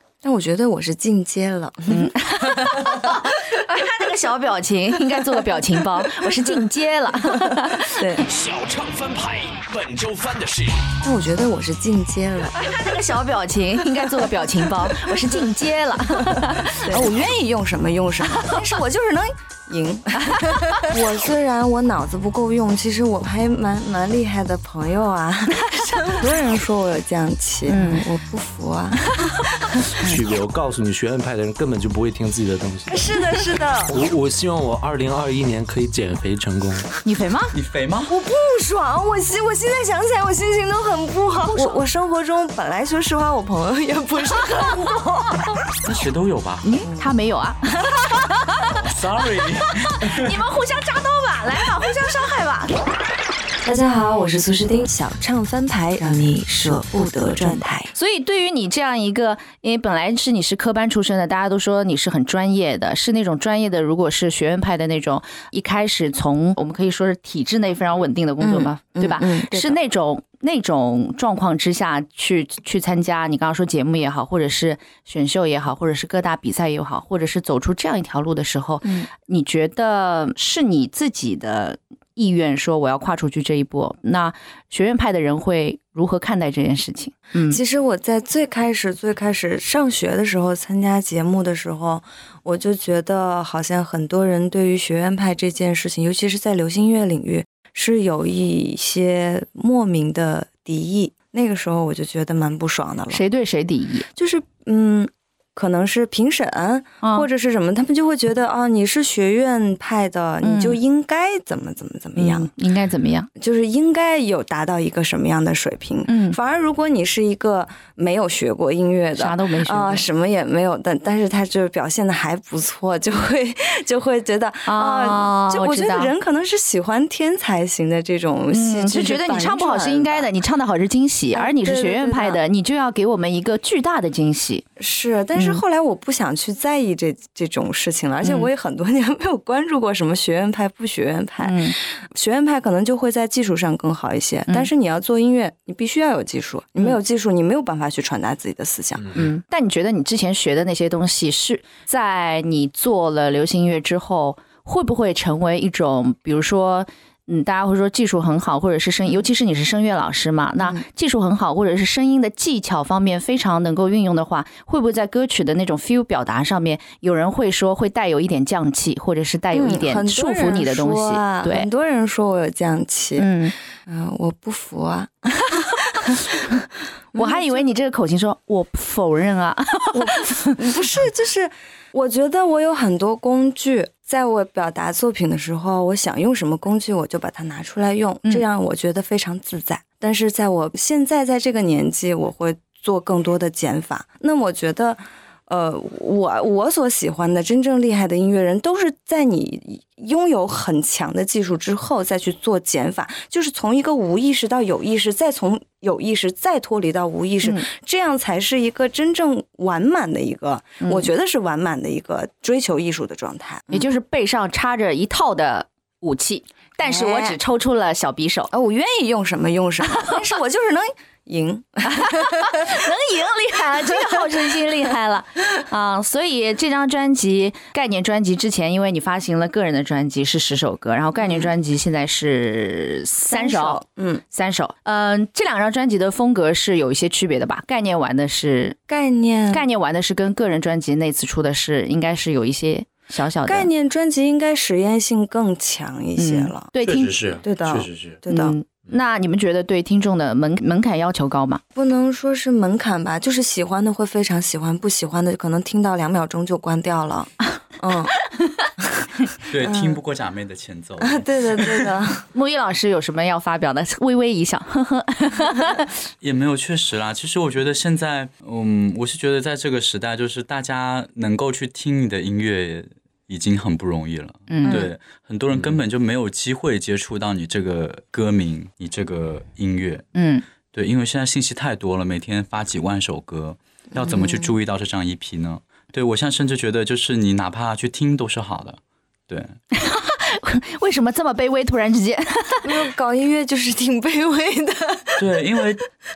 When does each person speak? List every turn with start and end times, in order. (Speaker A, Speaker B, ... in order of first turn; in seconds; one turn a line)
Speaker A: 0.2-3.2
Speaker B: 1.9-8.2
Speaker A: 7.2-8.2
Speaker C: 8.2-10.9
Speaker A: 11.0-12.6
Speaker B: 12.6-17.1
Speaker A: 16.2-29.2
Speaker B: 20.3-20.9
Speaker B: 27.7-28.1
Speaker D: 30.0-33.2
Speaker A: 32.9-33.9
Speaker D: 33.9-36.9
Speaker B: 37.0-37.5
Speaker E: 37.5-38.1
Speaker A: 38.1-45.5
Speaker B: 41.5-41.8
Speaker E: 45.8-46.7
Speaker B: 46.6-48.7
Speaker A: 46.8-47.1
Speaker E: 48.7-50.4
Speaker B: 49.7-52.8
Speaker A: 53.6-57.9
Speaker B: 57.9-87.6
Speaker A: 68.4-69.8
Speaker A: 78.8-79.1
Speaker A: 87.5-103.2
Speaker B: 103.1-104.1
Speaker A: 104.2-112.5
Speaker B: 110.4-110.8
Speaker B: 112.2-113.3
Speaker A: 113.4-130.3
Speaker B: 116.1-116.4
Speaker B: 119.2-120.1
Speaker B: 124.7-126.1
Speaker B: 128.5-134.7
Speaker A: 131.3-132.4
Speaker A: 134.8-149.2
Speaker B: 135.4-135.6
Speaker B: 138.2-138.5
Speaker B: 141.4-141.8
Speaker D: 149.0-149.3
Speaker B: 149.1-171.7
Speaker A: 160.6-160.8
Speaker A: 169.5-173.3
Speaker B: 173.2-173.5
Speaker A: 173.8-176.1
Speaker A: 177.1-177.7
Speaker B: 177.2-180.5
Speaker A: 179.9-213.9
Speaker B: 210.8-211.1
Speaker B: 213.7-218.5
Speaker A: 216.8-217.4
Speaker A: 218.5-222.7
Speaker B: 221.9-238.8
Speaker A: 231.2-231.5
Speaker A: 233.3-234.2
Speaker A: 238.9-239.7
Speaker B: 239.5-243.7
Speaker A: 243.4-246.7
Speaker B: 246.2-247.2
Speaker D: 246.8-248.2
Speaker A: 247.4-248.6
Speaker B: 248.3-251.6
Speaker A: 251.8-258.2
Speaker B: 258.3-258.6
Speaker E: 259.5-261.8
Speaker A: 259.6-260.0
Speaker A: 261.0-262.3
Speaker B: 262.3-265.9
Speaker E: 266.2-280.1
Speaker B: 274.5-274.9
Speaker A: 274.6-274.9
Speaker B: 280.1-280.4
Speaker E: 280.7-289.6
Speaker A: 284.0-284.5
Speaker B: 289.7-292.7
Speaker A: 292.6-295.4
Speaker E: 295.2-295.9